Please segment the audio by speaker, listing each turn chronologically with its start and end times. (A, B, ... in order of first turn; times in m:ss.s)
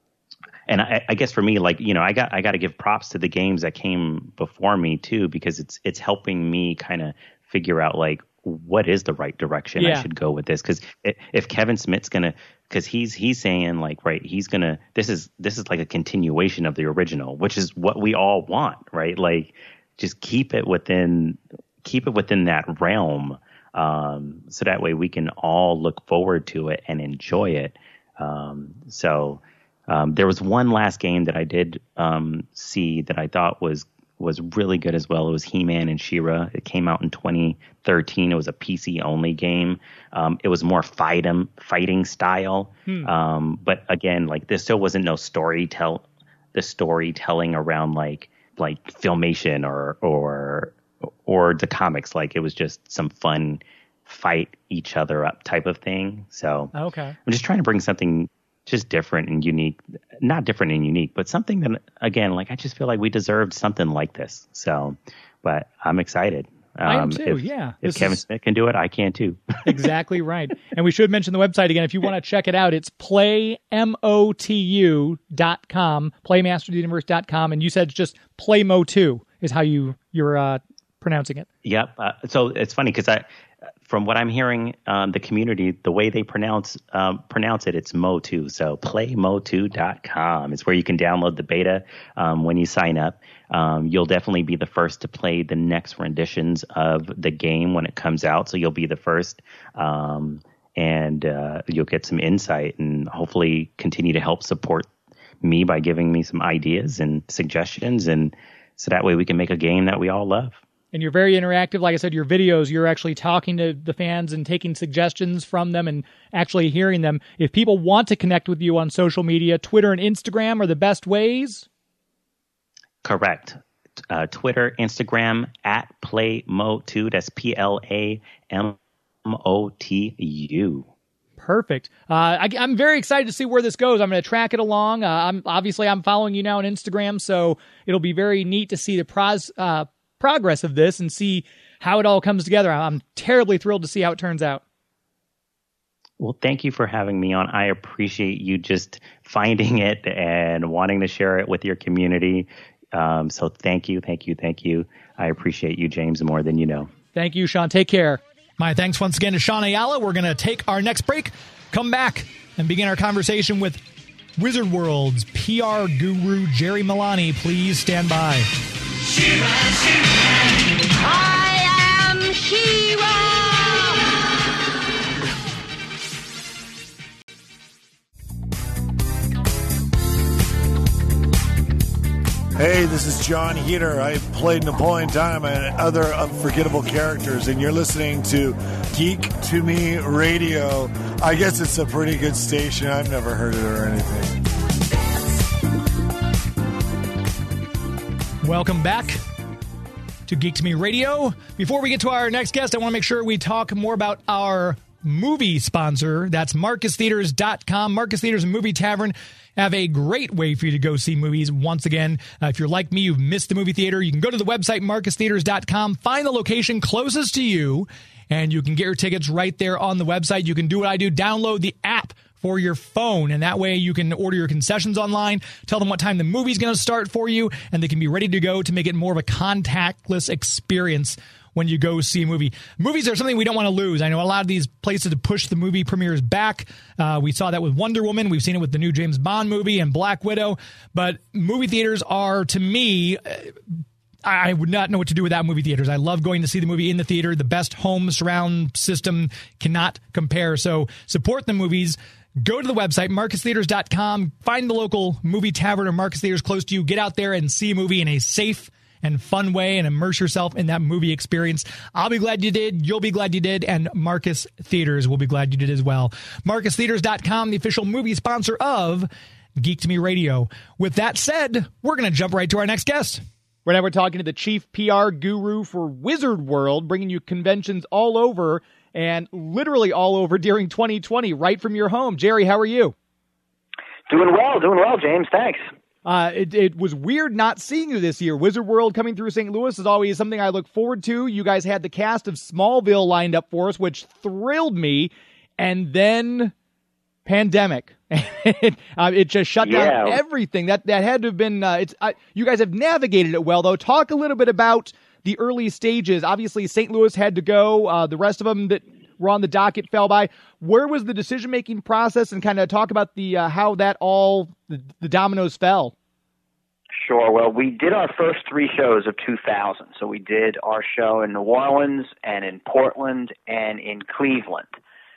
0:00.7-0:56.7 A
0:09.8-0:10.1 B
0:56.8-0:57.2 B
0:57.2-1:09.9 A
1:06.9-1:08.2 B
1:09.7-1:21.5 B
1:21.6-1:23.3 A
1:23.8-1:44.9 A
1:45.4-1:50.6 A
1:50.9-2:01.7 B
2:03.0-2:10.9 A
2:11.4-2:24.6 B
2:26.2-2:36.9 A
2:37.2-2:43.8 B
2:44.4-2:48.5 B
2:51.1-2:53.8 C
3:02.6-3:14.4 D
3:18.4-3:19.2 B
3:20.3-4:03.7 B
4:04.2-4:29.1 B
4:29.6-4:43.0 B
4:44.1-4:45.6 E
4:46.0-4:56.5 B
4:57.3-5:15.9 B
4:59.6-5:00.2 E
5:17.0-5:24.7 E